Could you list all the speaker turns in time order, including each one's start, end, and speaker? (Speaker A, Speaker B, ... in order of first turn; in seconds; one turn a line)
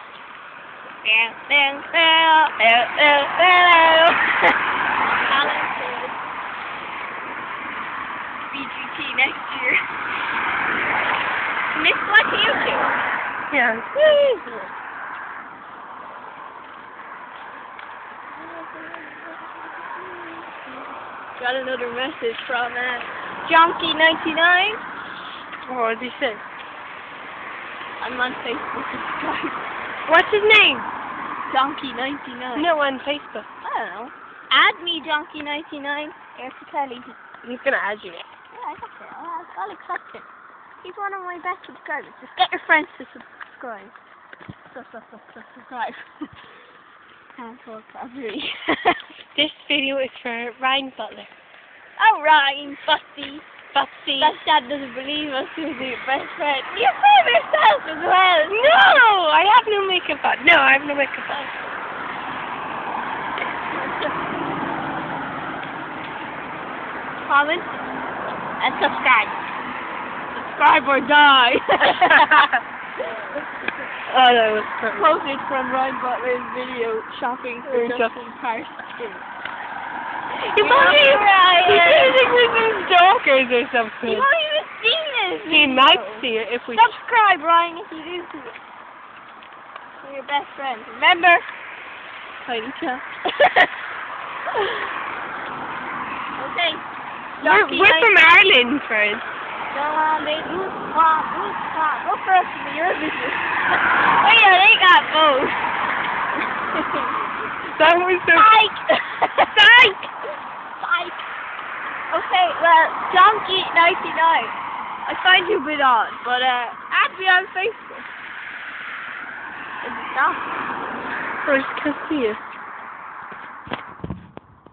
Speaker A: 1.0-4.3
Speaker A: 5.2-6.1
Speaker A: 8.5-9.8
Speaker A: 11.7-12.9
Speaker B: 13.5-14.7
Speaker A: 18.3-20.8
Speaker A: 21.4-24.8
Speaker B: 25.7-26.4
Speaker A: 28.0-29.6
Speaker B: 30.1-30.9
Speaker A: 31.5-32.7
Speaker B: 32.5-33.5
Speaker A: 33.6-37.2
Speaker B: 37.4-38.2
Speaker A: 38.5-40.2
Speaker A: 40.8-43.9
Speaker A: 44.7-46.3
Speaker A: 47.4-49.0
Speaker B: 49.3-51.3
Speaker A: 52.0-53.5
Speaker B: 53.7-54.3
Speaker A: 54.2-58.7
Speaker B: 58.5-61.5
Speaker A: 63.7-64.1
Speaker A: 67.2-67.8
Speaker A: 68.6-69.4
Speaker A: 70.3-72.5
Speaker B: 71.8-72.6
Speaker A: 73.0-73.4
Speaker B: 74.1-75.1
Speaker A: 74.9-79.2
Speaker B: 77.7-78.1
Speaker B: 80.5-84.3
Speaker A: 80.5-82.2
Speaker A: 84.0-88.5
Speaker B: 85.5-87.0
Speaker A: 90.0-91.4
Speaker A: 92.4-93.7
Speaker A: 94.5-94.8
Speaker A: 96.4-96.8
Speaker A: 97.4-98.1
Speaker B: 97.4-99.2
Speaker A: 99.7-105.6
Speaker A: 106.7-107.2
Speaker B: 107.7-108.5
Speaker A: 108.3-110.1
Speaker B: 109.5-109.9
Speaker A: 110.8-111.2
Speaker A: 112.1-114.5
Speaker A: 115.0-118.1
Speaker A: 119.8-120.5
Speaker B: 121.4-122.4